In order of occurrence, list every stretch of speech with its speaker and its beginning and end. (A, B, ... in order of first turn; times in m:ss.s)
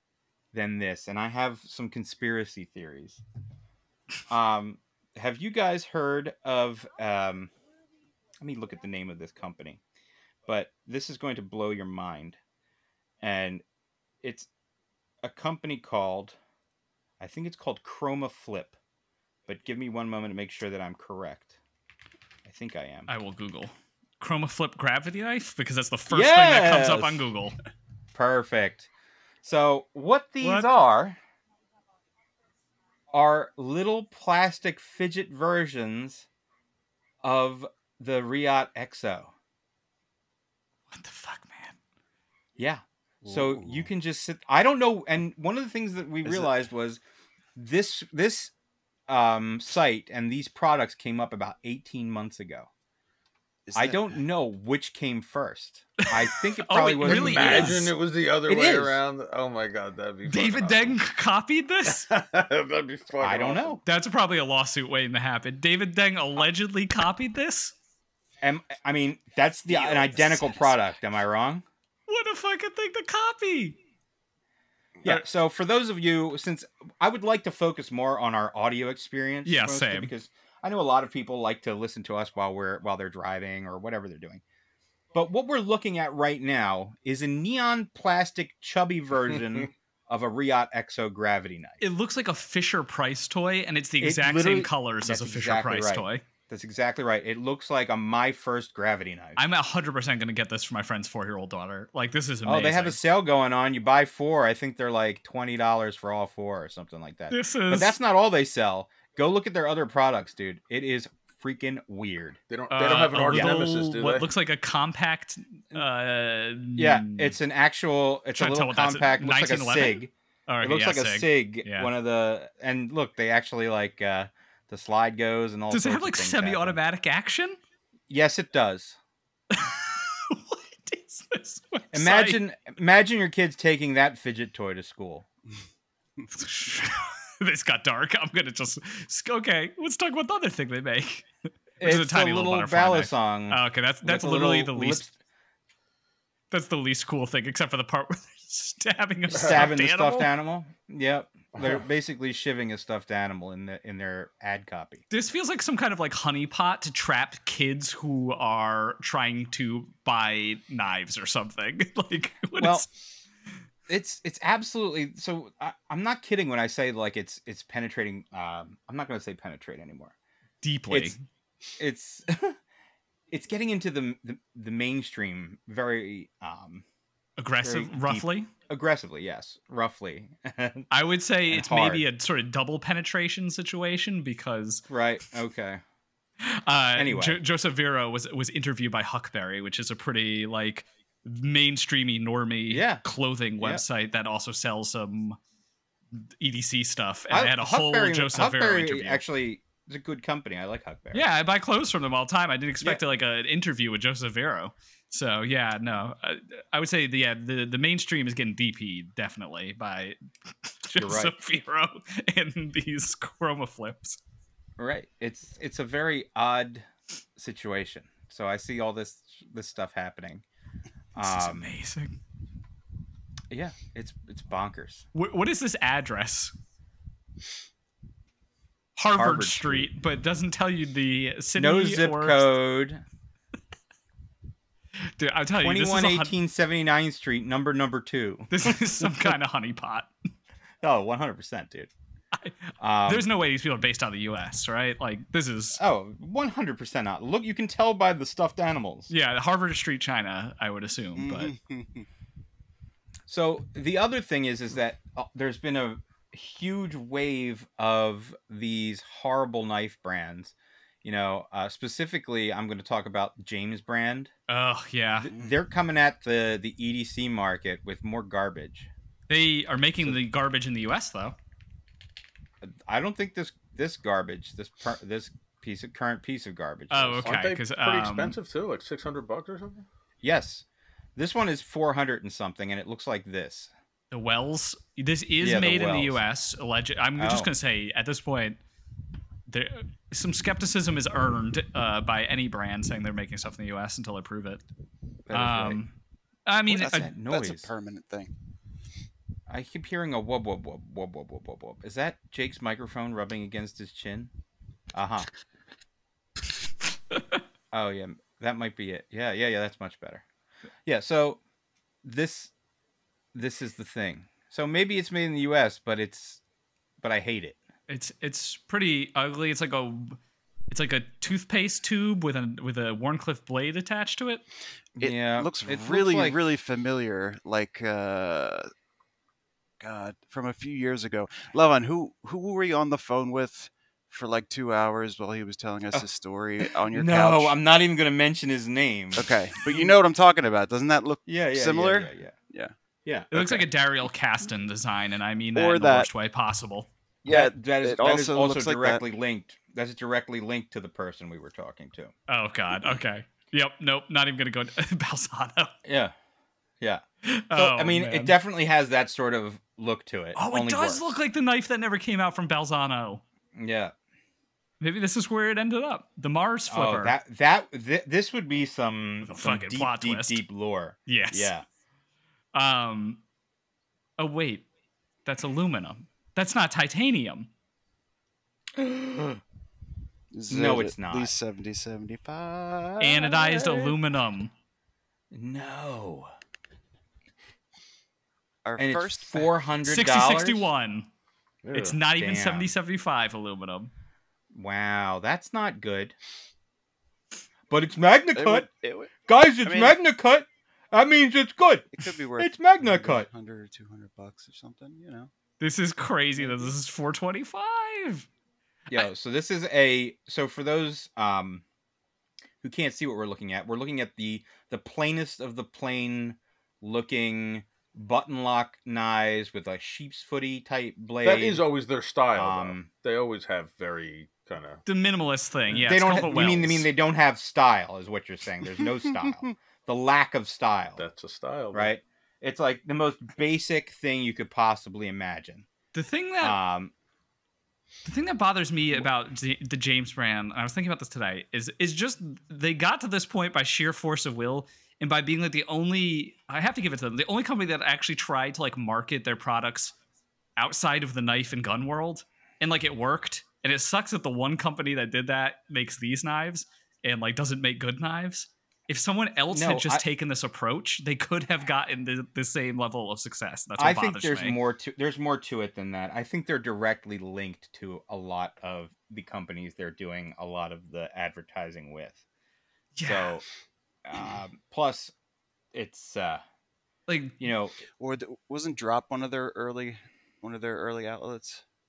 0:00.5-0:03.2 A
0:04.3-0:07.5 A
0:08.4-0:09.8 A
0:10.5-0:12.4 A
0:13.2-0:13.6 A
0:14.2-0:14.5 A
0:15.2-0:16.4 A
0:17.2-0:18.8 A
0:19.5-0:21.6 A
0:22.4-0:23.1 A
0:23.1-0:27.6 B
0:26.1-0:27.3 A
0:28.1-0:28.9 A
0:29.4-0:31.2 A
0:30.4-0:30.7 B
0:33.1-0:36.3 A
0:37.2-0:39.3 A
0:40.9-0:41.8 B
0:42.6-0:47.0 A
0:43.2-0:43.9 C
0:46.2-0:46.5 C
0:47.6-0:48.5 A
0:49.1-0:52.7 A
0:53.7-0:54.2 C
0:53.7-0:57.9 A
0:56.1-0:57.9 B
0:57.0-1:01.0 D
0:58.5-0:59.0 A
1:00.3-1:02.1 B
1:01.8-1:03.8 D
1:03.2-1:03.8 A
1:03.8-1:07.7 B
1:08.4-1:11.6 A
1:09.9-1:10.6 C
1:12.1-1:13.8 B
1:15.0-1:24.4 A
1:19.4-1:20.1 B
1:25.1-1:31.8 A
1:31.8-1:36.2 B
1:34.0-1:39.4 A
1:39.4-1:43.0 B
1:42.4-1:52.4 A
1:47.3-1:48.0 B
1:52.5-1:54.3 D
1:52.7-1:57.4 B
1:53.2-1:53.6 A
1:56.8-2:06.8 A
1:58.4-2:01.9 B
2:05.7-2:07.6 B
2:08.1-2:09.0 A
2:09.5-2:12.4 B
2:11.9-2:15.3 A
2:16.3-2:21.3 B
2:21.8-2:25.0 B
2:21.8-2:25.1 A
2:26.5-2:30.3 B
2:29.3-2:35.0 A
2:29.4-2:29.7 D
2:35.1-2:42.9 B
2:42.6-2:42.9 A
2:43.9-2:50.2 A
2:50.6-2:51.2 B
2:50.9-2:51.2 A
2:51.8-2:52.6 A
2:53.3-2:56.8 A
2:57.4-2:58.5 B
2:57.6-3:00.9 A
3:00.9-3:04.8 B
3:01.5-3:02.1 A
3:04.9-3:05.8 A
3:06.4-3:15.4 B
3:07.0-3:07.4 A
3:12.7-3:13.0 A
3:16.2-3:19.2 B
3:17.3-3:21.3 A
3:21.1-3:34.2 B
3:31.0-3:31.4 A
3:34.8-3:40.4 A
3:41.2-3:41.7 A
3:41.2-3:42.2 B
3:43.5-3:45.1 A
3:45.1-3:46.5 B
3:49.0-3:52.5 B
3:49.1-3:49.9 A
3:51.6-3:53.0 A
3:55.0-3:56.4 B
3:55.6-3:59.1 A
3:58.5-4:00.1 B
4:00.8-4:01.9 A
4:02.4-4:05.8 B
4:02.8-4:03.3 A
4:05.8-4:09.1 A
4:09.1-4:11.5 B
4:11.2-4:12.1 C
4:13.3-4:24.3 A
4:24.5-4:25.3 B
4:25.2-4:28.9 A
4:29.3-4:31.4 B
4:32.6-4:37.3 A
4:36.9-4:38.4 B
4:37.2-4:39.8 D
4:40.2-4:43.7 A
4:44.1-4:48.6 B
4:45.4-4:46.2 A
4:47.2-4:47.5 A
4:49.5-4:54.6 B
4:55.3-4:55.8 A
4:55.3-4:55.9 B
4:56.5-4:57.1 B
4:56.7-4:58.3 C
4:56.7-4:57.7 A
4:59.5-5:04.3 A
5:04.9-5:05.3 A
5:07.1-5:07.4 B
5:07.7-5:10.2 A
5:10.9-5:11.4 A
5:12.0-5:12.5 A
5:13.3-5:16.4 A
5:17.0-5:17.6 A
5:17.9-5:20.2 B
5:20.7-5:24.4 B
5:25.0-5:26.4 A
5:25.0-5:28.7 C
5:29.8-5:37.6 C
5:36.9-5:40.0 A
5:39.2-5:42.7 C
5:41.3-5:42.4 A
5:43.1-5:43.6 A
5:43.3-5:46.9 B
5:45.6-5:46.1 C
5:47.2-5:49.0 C
5:47.3-5:52.1 A
5:52.3-5:55.8 B
5:55.8-5:56.1 A
5:57.2-5:58.4 B
5:57.5-6:01.1 A
6:00.4-6:03.2 B
6:03.6-6:03.9 A
6:04.8-6:07.2 B
6:06.7-6:11.6 A
6:09.2-6:10.4 B
6:11.1-6:11.6 B
6:12.5-6:13.2 B
6:14.2-6:14.7 B
6:15.2-6:17.5 B
6:18.8-6:19.4 A
6:20.3-6:24.0 C
6:20.5-6:21.3 A
6:23.0-6:24.5 B
6:25.3-6:26.3 A
6:28.6-6:29.5 C
6:28.8-6:30.7 A
6:29.9-6:31.1 B
6:31.6-6:32.0 D
6:31.7-6:33.9 B
6:32.2-6:32.8 A
6:34.5-6:36.2 A
6:37.7-6:38.7 A
6:38.4-6:39.1 C
6:39.3-6:43.3 A
6:39.6-6:40.0 C
6:41.9-6:45.3 C
6:45.6-6:48.3 B
6:46.4-6:46.7 C
6:48.9-6:51.6 A
6:52.6-7:01.6 A
7:01.2-7:04.8 D
7:02.4-7:02.9 A
7:04.8-7:06.9 B
7:05.7-7:11.0 A
7:09.0-7:09.5 C
7:11.0-7:11.9 D
7:11.7-7:15.7 A
7:15.9-7:16.6 B
7:16.4-7:16.9 A
7:18.0-7:30.0 B
7:30.6-7:44.6 B
7:39.5-7:40.0 A
7:43.8-7:52.2 A
7:53.0-7:53.4 B
7:53.0-7:53.4 A
7:54.0-7:55.1 A
7:55.7-7:56.4 A
7:57.1-7:57.4 B
7:57.4-7:57.8 A
7:58.0-8:01.6 C